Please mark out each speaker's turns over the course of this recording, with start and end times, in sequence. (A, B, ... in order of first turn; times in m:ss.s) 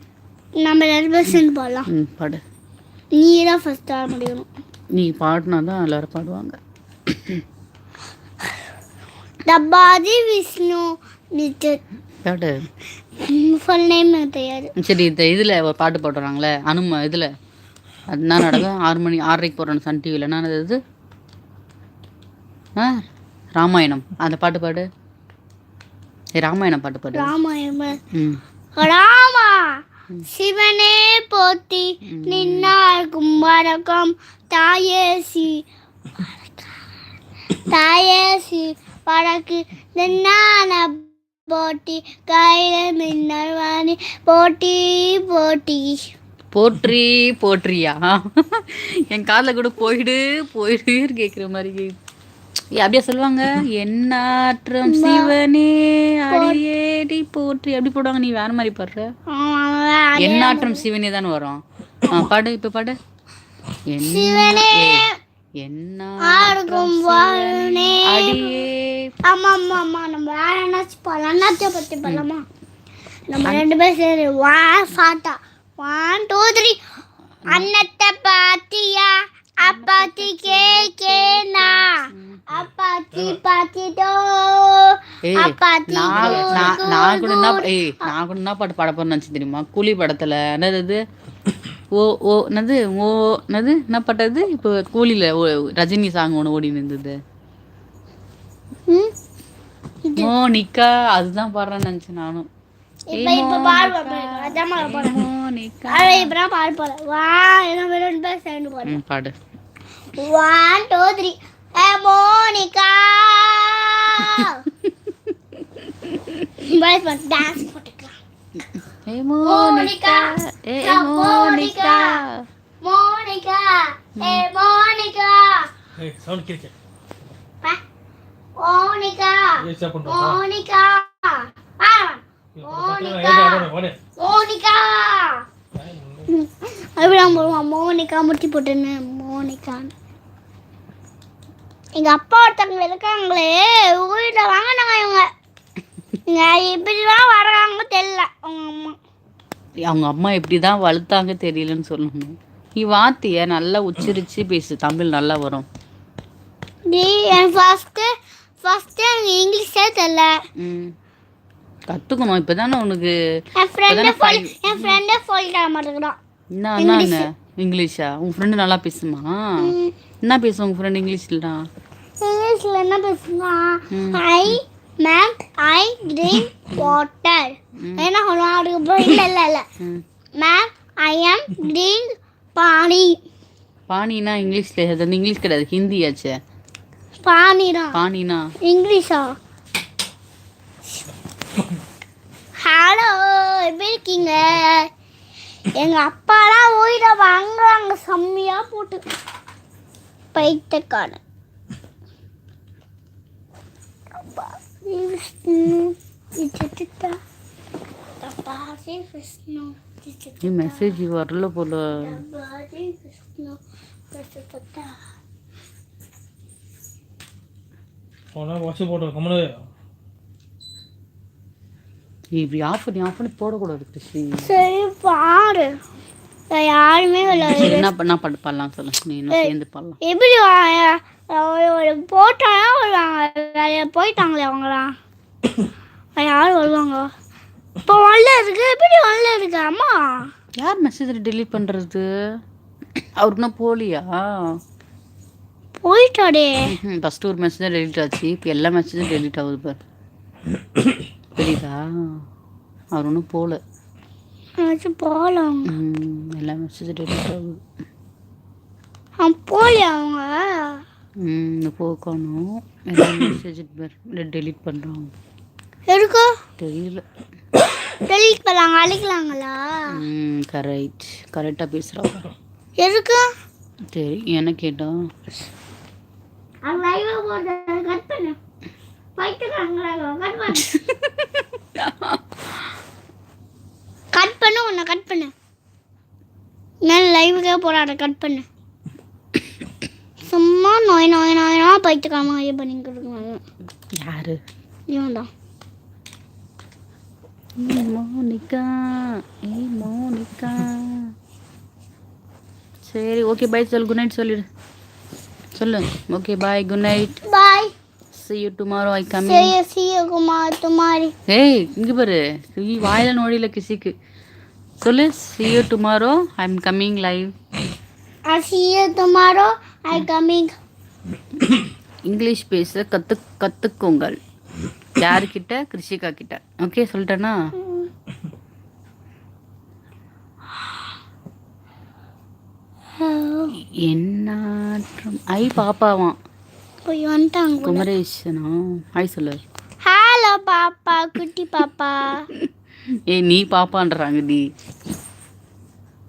0:00.6-0:01.9 A
0:01.9-0:02.4 B
0:03.1-0:04.5 A
0:04.9-0:07.4 B
0:09.4-0:11.8 A
0:12.2-0:12.7 B
0:13.2-0:14.7 A
0:14.8-0:17.3 B
0:18.1-0:20.8 B
0:22.7-0:23.0 B
0:23.6-0:24.8 B
0:26.4-0:27.3 B
0:27.1-0:28.0 A
0:28.1-0:28.4 B
0:28.8-0:35.6 A
0:32.0-0:32.7 B
0:37.6-0:46.0 A
0:46.5-0:51.9 B
0:52.7-0:59.1 B
0:54.8-0:55.4 A
0:56.3-0:56.6 A
0:59.3-1:00.8 A
1:00.2-1:03.0 B
1:03.9-1:09.1 B
1:04.0-1:05.2 A
1:06.2-1:08.5 A
1:09.2-1:12.4 A
1:13.3-1:16.8 A
1:17.5-1:28.1 A
1:19.6-1:22.4 B
1:23.1-1:23.4 C
1:25.2-1:31.0 B
1:26.1-1:26.8 C
1:31.9-1:37.2 B
1:40.0-1:40.3 A
1:40.2-1:42.5 B
1:43.1-1:45.2 A
1:43.1-1:46.3 B
1:45.9-1:49.0 A
1:48.8-1:49.3 B
1:50.1-1:54.6 A
1:54.2-1:56.5 B
1:56.6-1:58.1 A
1:58.8-2:02.5 B
1:59.4-2:02.2 A
2:02.8-2:05.7 A
2:04.2-2:04.4 B
2:06.0-2:06.7 C
2:08.6-2:13.6 A
2:09.6-2:10.4 C
2:12.6-2:14.0 C
2:14.2-2:15.4 A
2:15.7-2:16.3 C
2:16.3-2:19.9 A
2:17.0-2:17.6 C
2:22.0-2:25.2 A
2:26.3-2:29.0 A
2:29.8-2:35.6 B
2:36.9-2:38.1 A
2:38.6-2:40.3 A
2:40.6-2:40.9 B
2:41.9-2:43.1 B
2:43.6-2:46.2 A
2:43.9-2:45.0 B
2:46.5-2:51.6 B
2:46.8-2:47.3 A
2:49.6-2:49.9 A
2:52.2-2:59.6 A
2:53.9-2:54.6 B
2:57.8-2:58.1 B
2:59.8-3:00.0 B
3:00.4-3:03.2 A
3:03.9-3:06.3 B
3:07.2-3:08.0 A
3:07.9-3:08.5 B
3:08.6-3:09.4 A
3:12.6-3:14.9 A
3:15.8-3:19.0 A
3:20.3-3:21.2 A
3:24.2-3:27.2 A
3:28.2-3:31.0 A
3:30.4-3:32.2 B
3:31.9-3:33.6 A
3:34.1-3:35.0 A
3:38.3-3:39.6 C
3:42.3-3:44.5 B
3:44.4-3:45.8 A
3:46.5-3:47.9 A
3:47.3-3:50.0 B
3:50.0-3:54.9 A
3:56.2-3:57.1 A
3:57.8-4:00.3 A
4:00.6-4:02.0 B
4:03.2-4:04.6 B
4:05.8-4:06.7 A
4:06.7-4:09.8 B
4:11.4-4:12.2 B
4:12.9-4:13.6 B
4:14.6-4:15.7 A
4:15.7-4:17.6 B
4:19.2-4:20.8 A
4:21.2-4:25.1 B
4:25.9-4:26.4 A
4:26.6-4:27.0 B
4:28.1-4:30.0 A
4:29.9-4:32.2 B
4:32.8-4:33.3 A
4:33.9-4:35.0 B
4:36.6-4:38.4 A
4:39.2-4:40.7 A
4:40.5-4:42.2 B
4:44.1-4:45.3 A
4:46.8-4:48.4 A
4:50.3-4:53.4 A
4:53.9-4:54.4 B
4:54.9-4:55.3 A
4:57.6-5:01.1 B
5:02.8-5:04.4 B
5:05.5-5:07.2 B
5:07.2-5:07.7 A
5:08.1-5:09.5 B
5:09.2-5:11.1 A
5:11.3-5:13.9 B
5:14.8-5:17.3 B
5:18.3-5:20.5 A
5:22.0-5:24.2 B
5:25.0-5:27.4 B
5:27.6-5:27.9 A
5:33.0-5:33.5 A
5:33.6-5:36.2 B
5:36.8-5:37.9 A
5:37.6-5:39.4 B
5:39.8-5:42.3 A
5:42.3-5:44.4 B